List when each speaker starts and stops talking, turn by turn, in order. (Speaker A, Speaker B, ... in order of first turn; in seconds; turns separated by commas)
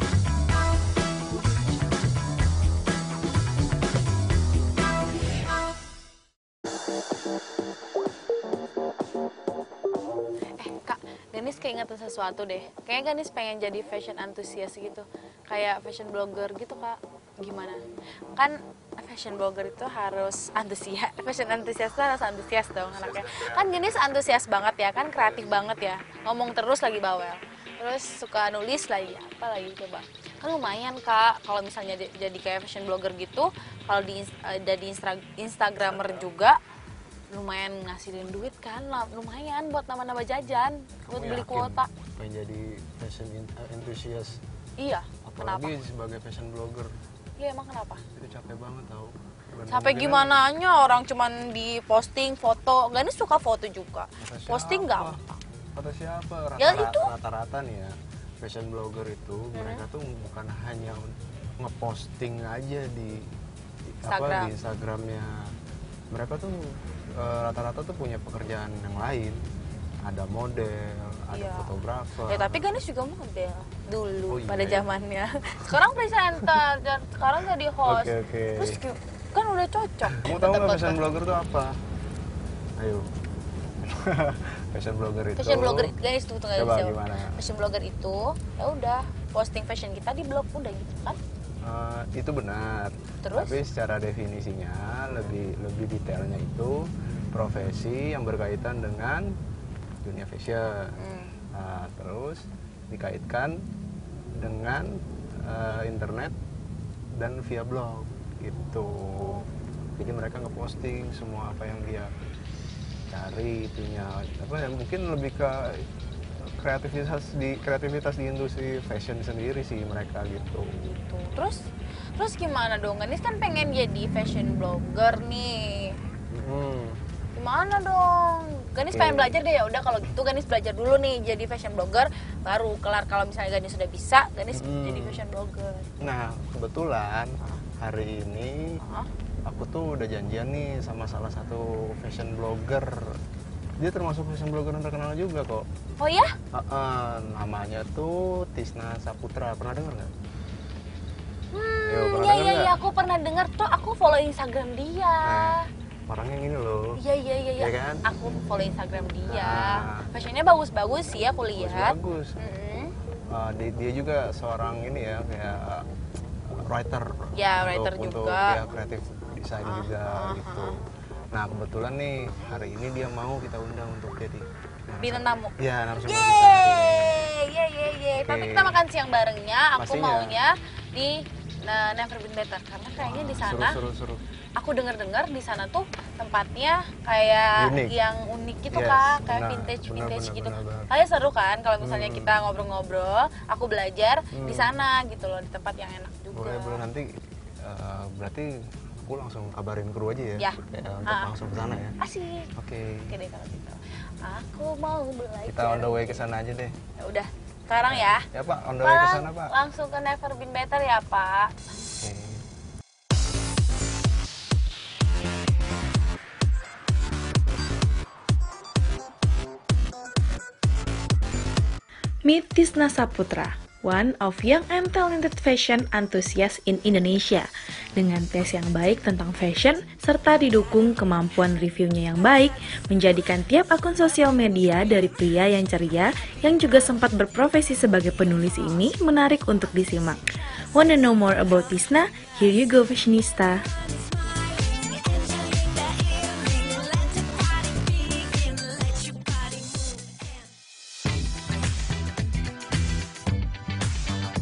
Speaker A: 10.6-17.8, Speaker A: 18.4-36.6, Speaker A: 37.3-41.9, Speaker B: 41.1-44.4, Speaker A: 44.8-45.8, Speaker B: 45.2-46.9, Speaker A: 47.4-48.0, Speaker B: 48.1-50.4, Speaker A: 49.7-55.4, Speaker B: 54.2-55.2, Speaker B: 55.7-63.3, Speaker A: 56.6-57.1, Speaker A: 59.5-59.8, Speaker B: 64.0-65.5, Speaker A: 64.1-64.5, Speaker B: 66.1-69.4, Speaker B: 70.0-72.7, Speaker A: 71.3-71.7, Speaker A: 72.3-81.0, Speaker B: 74.3-74.8, Speaker B: 77.8-78.8, Speaker B: 80.2-81.8, Speaker B: 82.8-83.1, Speaker B: 83.8-85.9, Speaker A: 85.3-91.2, Speaker B: 86.5-87.3, Speaker B: 91.6-99.3, Speaker A: 93.2-93.6, Speaker B: 100.0-101.0, Speaker A: 101.0-101.3, Speaker B: 101.5-103.5, Speaker B: 104.3-106.3, Speaker B: 107.1-109.4, Speaker B: 110.0-112.1, Speaker B: 113.1-120.8, Speaker A: 120.8-121.6, Speaker A: 122.2-125.9, Speaker B: 126.3-127.0, Speaker A: 127.3-135.9, Speaker B: 128.9-129.3, Speaker B: 134.5-135.2, Speaker B: 136.0-138.7, Speaker A: 138.8-139.1, Speaker B: 139.4-143.0, Speaker B: 143.8-145.7, Speaker A: 146.0-146.3, Speaker B: 146.5-150.1, Speaker A: 151.5-155.7, Speaker B: 151.9-152.7, Speaker B: 155.2-155.6, Speaker B: 156.1-157.0, Speaker A: 157.0-162.9, Speaker B: 157.6-158.0, Speaker B: 159.3-160.1, Speaker B: 161.5-162.3, Speaker B: 163.3-165.8, Speaker B: 166.5-170.8, Speaker A: 167.3-168.6, Speaker A: 169.6-170.7, Speaker B: 171.3-177.2, Speaker A: 175.0-183.8, Speaker B: 178.2-178.8, Speaker B: 179.8-180.3, Speaker B: 183.0-184.2, Speaker A: 184.6-196.8, Speaker B: 187.6-187.9, Speaker B: 188.7-190.9, Speaker B: 191.8-192.3, Speaker B: 194.3-194.7, Speaker B: 196.3-197.1, Speaker B: 197.6-201.9, Speaker A: 200.4-201.3, Speaker A: 202.0-202.5, Speaker B: 202.6-203.1, Speaker A: 203.1-206.2, Speaker B: 205.5-206.8, Speaker A: 207.0-208.2, Speaker B: 207.9-209.5, Speaker A: 208.8-211.6, Speaker B: 211.9-212.4, Speaker C: 222.2-240.2, Speaker C: 240.7-243.7, Speaker A: 246.1-246.9, Speaker A: 248.6-249.8